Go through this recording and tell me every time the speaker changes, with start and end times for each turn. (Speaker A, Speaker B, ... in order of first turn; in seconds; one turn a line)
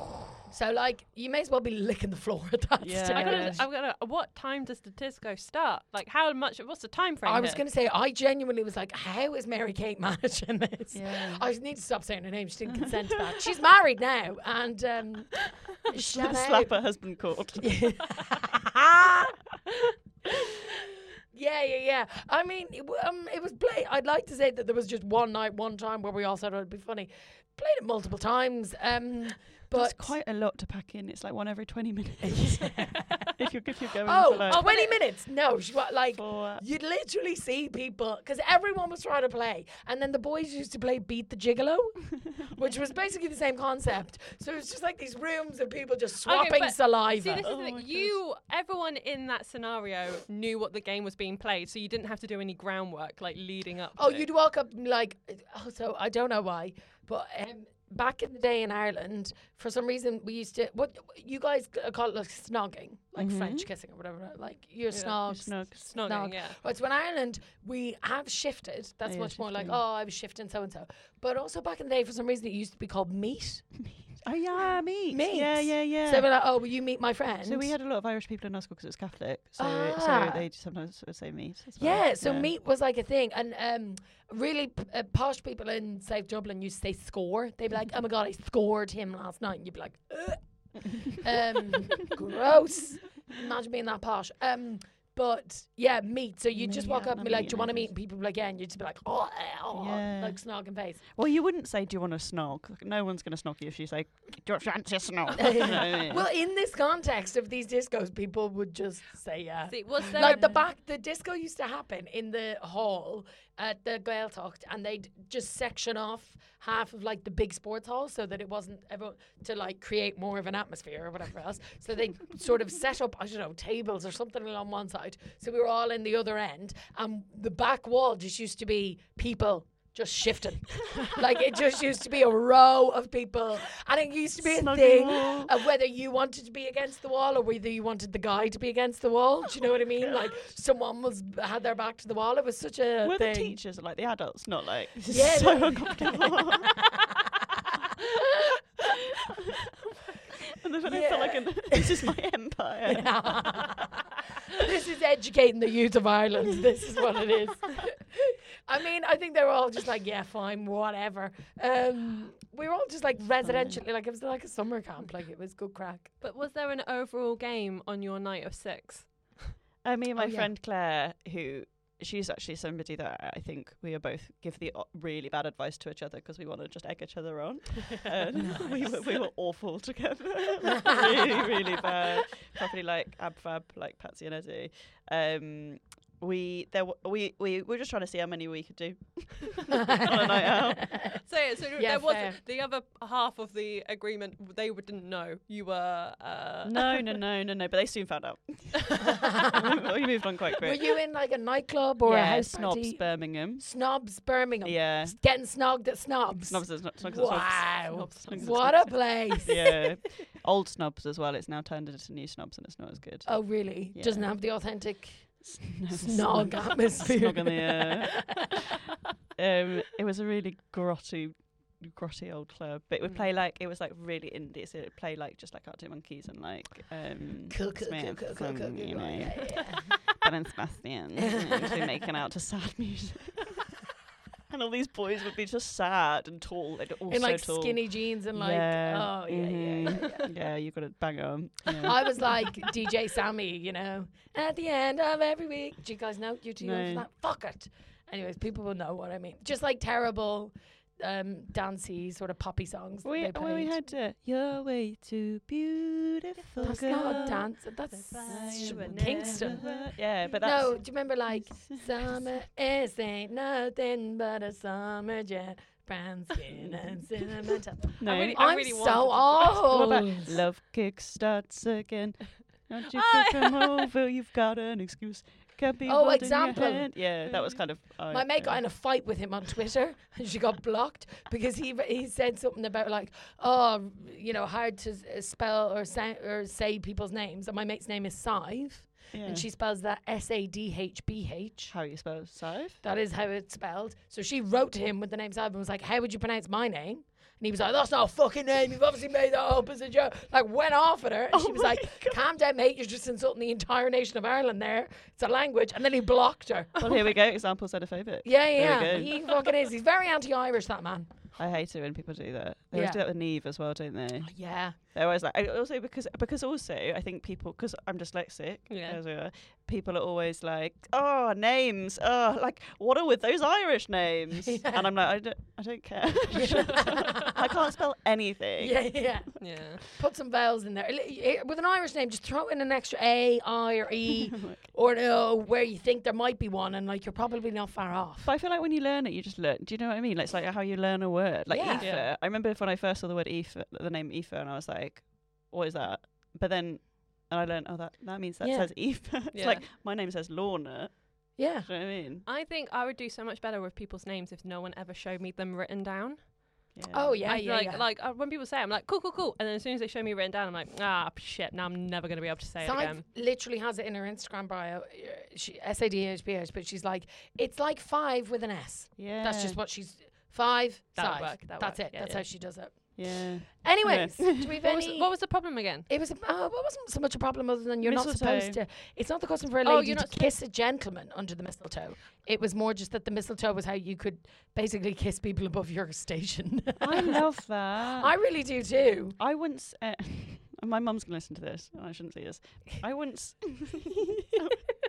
Speaker A: 0.4-3.6
Speaker B: 2.8-3.6
Speaker C: 3.1-7.6
Speaker A: 7.2-16.7
Speaker B: 10.9-11.4
Speaker B: 12.7-13.3
Speaker B: 15.9-17.7
Speaker A: 17.6-30.1
Speaker B: 29.7-34.7
Speaker A: 32.2-33.3
Speaker A: 34.0-47.5
Speaker C: 34.4-34.9
Speaker B: 36.1-36.6
Speaker C: 46.2-54.2
Speaker B: 47.4-48.2
Speaker A: 54.0-73.8
Speaker B: 63.1-63.7
Speaker C: 64.9-65.2
Speaker B: 65.2-65.8
Speaker C: 65.8-66.6
Speaker B: 69.0-69.8
Speaker B: 74.2-76.3
Speaker A: 75.1-77.7
Speaker B: 77.4-82.5
Speaker A: 79.6-80.5
Speaker A: 81.8-101.0
Speaker B: 96.5-97.9
Speaker B: 99.7-100.4
Speaker B: 101.1-106.2
Speaker A: 105.3-143.6
Speaker C: 109.7-110.6
Speaker B: 110.2-110.5
Speaker B: 134.4-135.6
Speaker B: 143.0-146.8
Speaker A: 145.0-146.6
Speaker A: 147.5-149.0
Speaker B: 150.5-153.6
Speaker A: 150.8-152.1
Speaker A: 152.8-166.1
Speaker B: 163.4-163.8
Speaker C: 166.2-169.5
Speaker B: 169.8-191.0
Speaker A: 170.2-170.5
Speaker A: 178.4-178.9
Speaker A: 189.8-191.2
Speaker C: 191.2-197.0
Speaker A: 191.8-192.4
Speaker B: 196.6-201.0
Speaker A: 199.0-199.6
Speaker A: 200.6-209.8
Speaker B: 202.0-203.6
Speaker B: 204.6-205.2
Speaker B: 206.5-214.4
Speaker A: 213.2-218.5
Speaker B: 215.4-218.6
Speaker B: 219.3-233.8
Speaker A: 227.5-230.0
Speaker A: 231.2-231.9
Speaker B: 234.5-242.4
Speaker A: 237.1-240.3
Speaker A: 241.7-253.7
Speaker B: 246.6-247.1
Speaker B: 253.0-257.5
Speaker C: 256.4-260.3
Speaker A: 256.6-259.7
Speaker B: 258.3-262.3
Speaker A: 260.4-270.4
Speaker B: 266.5-267.1
Speaker B: 268.0-268.4
Speaker C: 268.0-270.0
Speaker B: 269.4-278.6
Speaker C: 272.9-273.8
Speaker A: 275.9-291.7
Speaker B: 289.1-289.4
Speaker B: 291.7-292.8
Speaker A: 292.8-306.9
Speaker B: 301.3-302.2
Speaker B: 306.8-309.5
Speaker A: 308.2-311.1
Speaker B: 311.4-329.1
Speaker A: 312.7-313.0
Speaker A: 314.2-314.8
Speaker C: 318.7-319.0
Speaker A: 324.5-324.9
Speaker A: 326.3-327.4
Speaker A: 328.6-338.3
Speaker C: 329.4-329.8
Speaker B: 338.2-352.2
Speaker A: 341.5-341.9
Speaker C: 341.8-342.1
Speaker A: 348.4-348.7
Speaker C: 349.3-349.6
Speaker A: 351.4-351.7
Speaker C: 352.2-356.7
Speaker B: 356.7-357.2
Speaker A: 356.9-357.8
Speaker C: 357.2-363.0
Speaker A: 362.6-387.2
Speaker B: 369.0-369.6
Speaker C: 370.9-372.2
Speaker B: 372.9-374.6
Speaker C: 374.4-375.9
Speaker B: 377.8-378.6
Speaker C: 379.6-380.3
Speaker B: 386.8-388.1
Speaker A: 387.9-389.2
Speaker B: 389.2-394.5